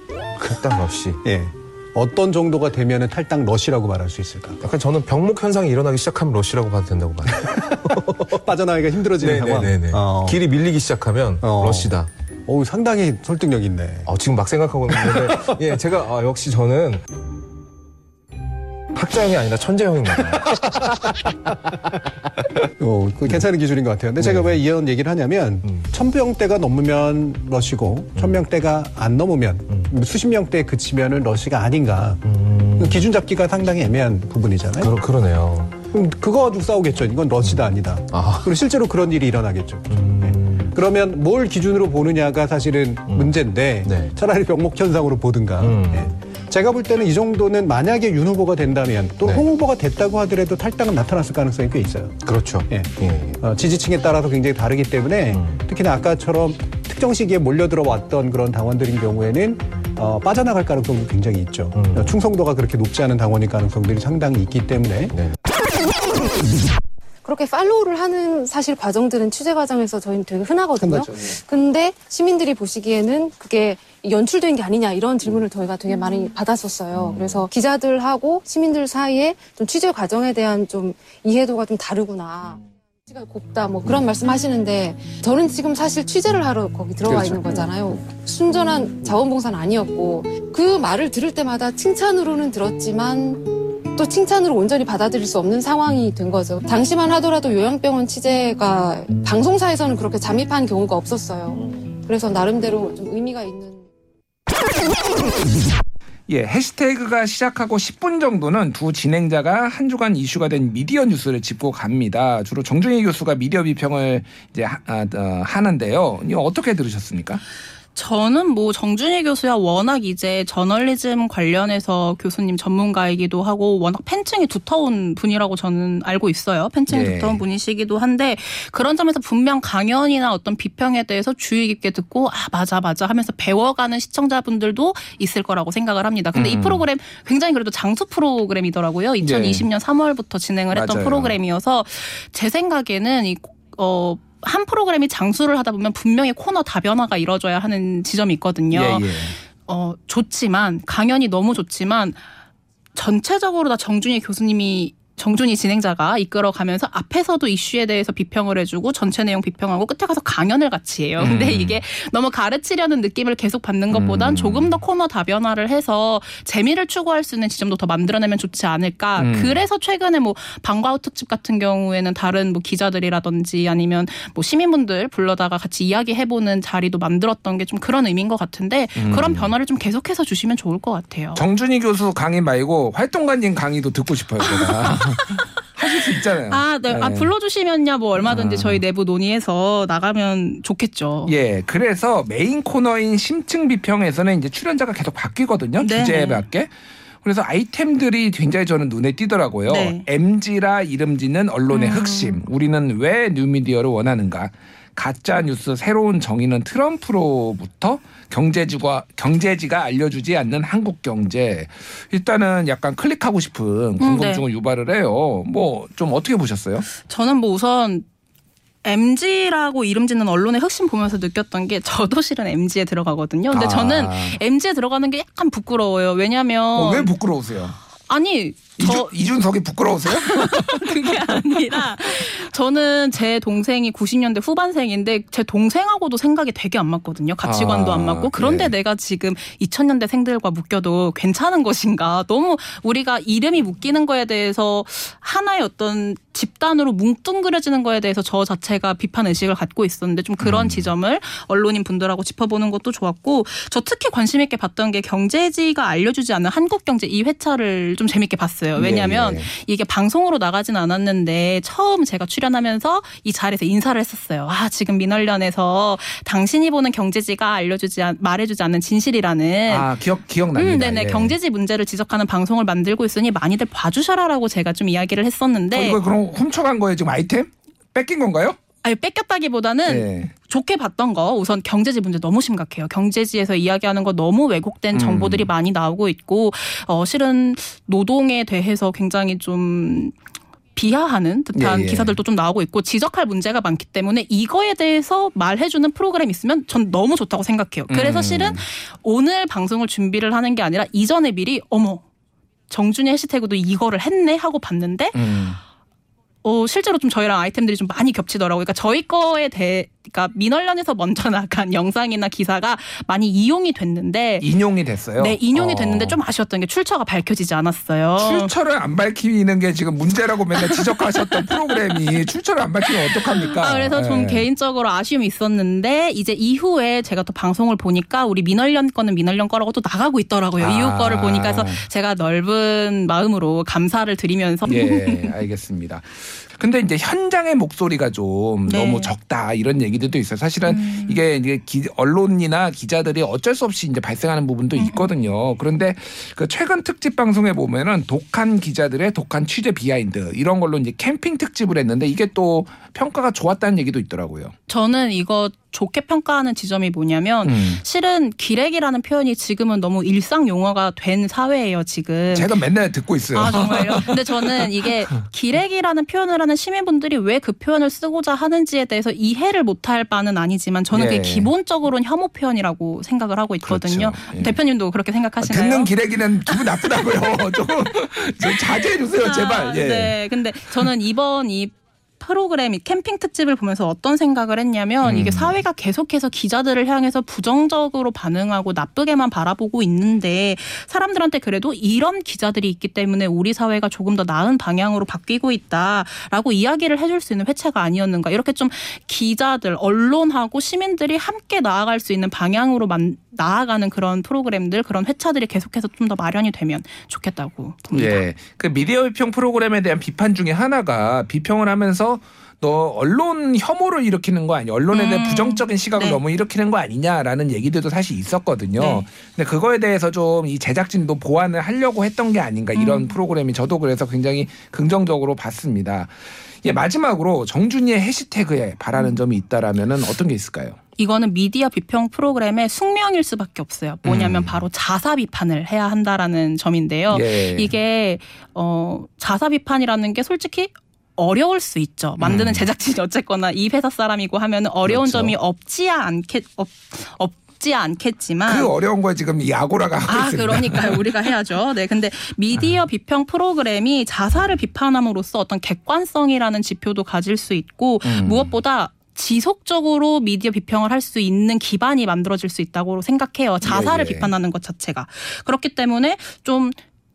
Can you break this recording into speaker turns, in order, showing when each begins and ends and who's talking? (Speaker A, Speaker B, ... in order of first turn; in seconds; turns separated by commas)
Speaker A: 0.4-1.2, Speaker B: 1.2-4.6, Speaker A: 4.6-7.7, Speaker B: 7.5-10.4, Speaker A: 9.2-12.1, Speaker B: 11.4-14.1, Speaker A: 14.1-17.0, Speaker B: 14.9-15.6, Speaker A: 18.9-20.6, Speaker B: 22.8-34.9, Speaker A: 24.2-24.6, Speaker A: 32.2-33.1, Speaker A: 34.8-35.8, Speaker B: 35.8-65.2, Speaker A: 37.4-38.5, Speaker A: 39.9-40.7, Speaker A: 43.1-44.1, Speaker A: 45.6-46.1, Speaker A: 52.2-53.4, Speaker A: 55.3-55.6, Speaker A: 61.8-62.1, Speaker C: 67.2-103.8, Speaker B: 70.8-71.1, Speaker D: 87.0-87.5, Speaker D: 106.3-117.4, Speaker E: 117.9-152.2, Speaker D: 126.9-127.4, Speaker D: 136.3-136.8, Speaker D: 139.2-139.7, Speaker D: 140.7-141.4, Speaker D: 148.7-149.4, Speaker E: 152.9-181.4, Speaker D: 161.2-161.8, Speaker D: 163.9-164.7, Speaker D: 169.2-169.6, Speaker D: 178.9-179.5, Speaker D: 181.3-187.3, Speaker E: 184.4-185.4, Speaker E: 186.4-191.3, Speaker D: 188.2-188.8, Speaker D: 191.2-196.7, Speaker E: 195.8-196.4, Speaker D: 197.2-216.9, Speaker E: 199.7-200.1, Speaker E: 201.7-202.4, Speaker E: 214.0-214.4, Speaker E: 216.9-218.1, Speaker E: 218.8-227.1, Speaker D: 223.5-224.4, Speaker D: 226.7-227.8, Speaker E: 228.1-229.1, Speaker D: 228.8-231.4, Speaker E: 230.1-269.9, Speaker D: 237.4-238.7, Speaker D: 250.4-250.9, Speaker D: 258.8-259.5, Speaker D: 269.7-271.3, Speaker E: 270.5-276.0, Speaker D: 275.7-278.6, Speaker E: 278.8-290.1, Speaker D: 279.9-280.3, Speaker D: 284.9-285.5, Speaker E: 290.7-302.0, Speaker D: 291.5-292.2, Speaker D: 297.9-298.6, Speaker E: 302.7-305.2, Speaker D: 305.1-305.6, Speaker E: 306.4-314.5, Speaker D: 314.4-316.2, Speaker E: 315.1-318.5, Speaker D: 318.2-324.5, Speaker E: 323.0-335.3, Speaker D: 330.6-331.9, Speaker D: 334.6-354.5, Speaker E: 338.7-339.1, Speaker E: 340.6-341.2, Speaker E: 344.8-345.1, Speaker E: 354.7-362.6, Speaker D: 357.4-357.8, Speaker D: 362.3-365.0, Speaker E: 363.3-377.1, Speaker D: 370.9-371.5, Speaker D: 373.6-374.6, Speaker D: 375.4-380.2, Speaker E: 378.4-408.2, Speaker D: 385.0-385.6, Speaker D: 407.9-430.8, Speaker E: 414.9-416.2, Speaker E: 418.8-419.0, Speaker E: 422.7-423.2, Speaker E: 431.0-448.7, Speaker D: 434.0-434.6, Speaker D: 437.1-437.7, Speaker D: 442.2-442.6, Speaker D: 444.8-445.3, Speaker D: 448.4-451.1, Speaker E: 450.1-466.8, Speaker D: 458.0-458.6, Speaker D: 463.6-464.3